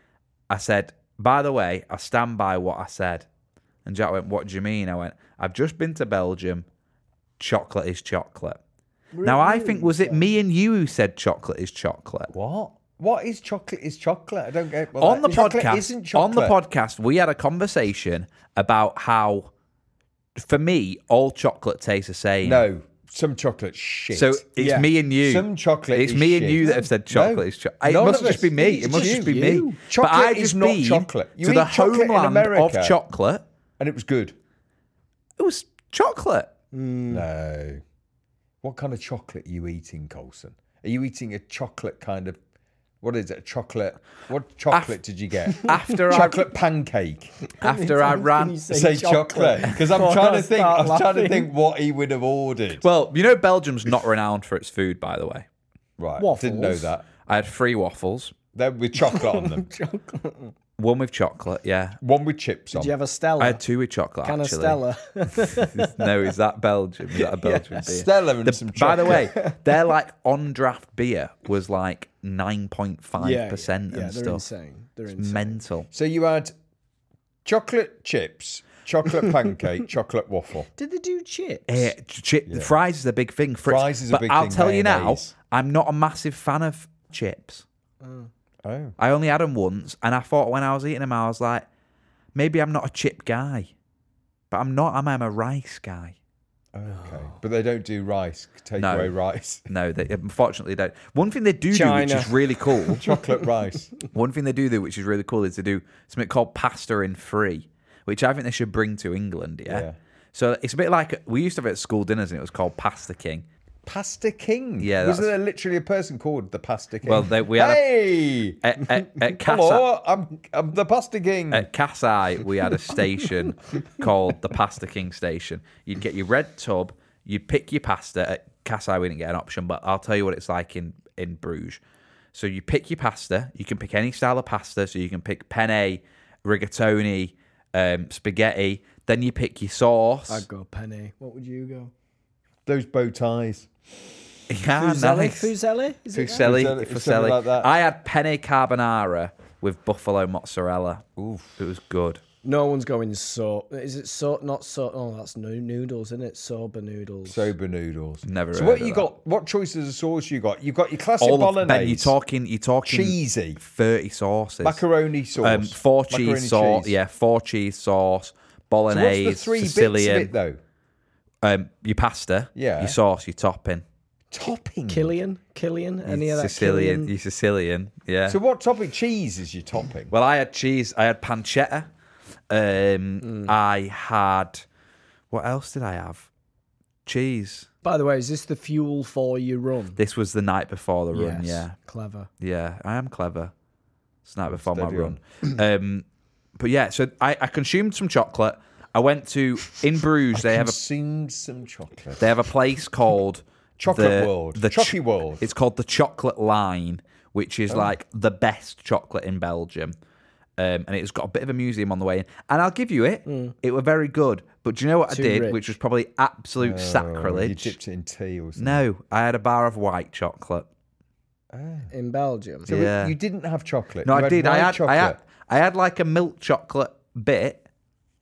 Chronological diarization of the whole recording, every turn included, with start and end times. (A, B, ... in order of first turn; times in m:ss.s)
0:00.5-0:03.2 A
0:03.8-0:06.6 A
0:07.4-0:08.6 A
0:09.1-0:10.3 B
0:09.2-0:12.3 A
0:12.3-0:16.6 C
0:15.0-0:19.5 A
0:20.4-0:22.6 A
0:22.4-0:24.4 C
0:24.1-0:33.4 A
0:24.6-0:24.9 B
0:25.2-0:33.0 C
0:28.0-0:29.6 B
0:33.8-0:34.4 C
0:35.4-0:36.5 A
0:36.7-0:37.2 B
0:37.1-0:37.8 C
0:38.6-0:42.4 C
0:43.0-0:47.3 C
0:44.7-0:45.0 A
0:45.5-0:46.4 A
0:47.5-0:51.5 B
0:47.6-0:48.6 A
0:48.7-0:52.8 C
0:52.8-0:55.4 A
0:56.0-0:57.1 C
0:56.2-0:56.9 B
0:57.3-0:58.3 A
0:58.5-0:59.7 C
0:59.0-1:00.5 B
1:00.8-1:02.0 A
1:02.0-1:02.9 C
1:02.7-1:03.6 B
1:03.4-1:04.8 A
1:04.2-1:06.1 B
1:05.4-1:14.4 A
1:07.2-1:07.9 B
1:07.8-1:09.3 C
1:13.2-1:15.6 B
1:15.2-1:15.9 A
1:15.9-1:16.5 C
1:17.4-1:20.7 C
1:20.8-1:21.9 B
1:21.7-1:27.6 A
1:22.5-1:22.7 C
1:23.6-1:25.3 C
1:28.0-1:28.3 B
1:28.6-1:29.0 C
1:29.0-1:31.6 A
1:32.3-1:33.7 A
1:34.5-1:36.2 A
1:36.7-1:39.6 C
1:38.8-1:39.1 A
1:39.6-1:43.0 A
1:41.7-1:42.4 B
1:42.9-1:43.9 C
1:44.1-1:53.4 A
1:49.6-1:49.9 C
1:53.8-1:58.6 C
1:54.8-1:55.3 A
1:57.1-1:57.8 A
1:58.6-1:59.8 A
1:59.4-2:01.7 C
2:01.5-2:11.8 A
2:12.3-2:20.4 A
2:20.3-2:21.9 B
2:22.6-2:23.7 C
2:24.5-2:25.5 A
2:24.8-2:26.5 B
2:26.1-2:27.7 C
2:26.4-2:31.0 A
2:31.2-2:31.5 C
2:31.6-2:32.2 A
2:32.4-2:37.5 B
2:37.2-2:42.1 C
2:38.2-2:39.1 A
2:41.2-2:44.8 A
2:42.8-2:43.6 C
2:44.6-2:47.0 C
2:45.4-2:50.3 A
2:48.9-2:50.6 C
2:51.4-2:53.8 A
2:52.5-2:53.0 C
2:54.3-2:55.2 C
2:54.9-2:57.1 B
2:56.1-2:58.4 A
2:58.2-3:00.1 C
3:00.1-3:01.9 A
3:02.5-3:04.6 A
3:03.2-3:03.5 B
3:05.3-3:06.3 A
3:07.0-3:07.7 A
3:07.8-3:10.0 B
3:10.0-3:11.7 A
3:11.1-3:12.3 B
3:12.4-3:13.5 A
3:14.2-3:16.0 A
3:14.5-3:15.2 C
3:16.6-3:20.8 A
3:20.3-3:22.2 C
3:22.2-3:29.9 A
3:23.8-3:25.4 C
3:30.6-3:37.7 A
3:33.2-3:33.5 B
3:35.1-3:35.6 B
3:36.6-3:38.8 C
3:38.6-3:40.7 A
3:41.5-3:41.9 C
3:41.9-3:42.7 B
3:42.6-3:45.2 C
3:42.7-3:43.1 A
3:44.0-3:47.6 A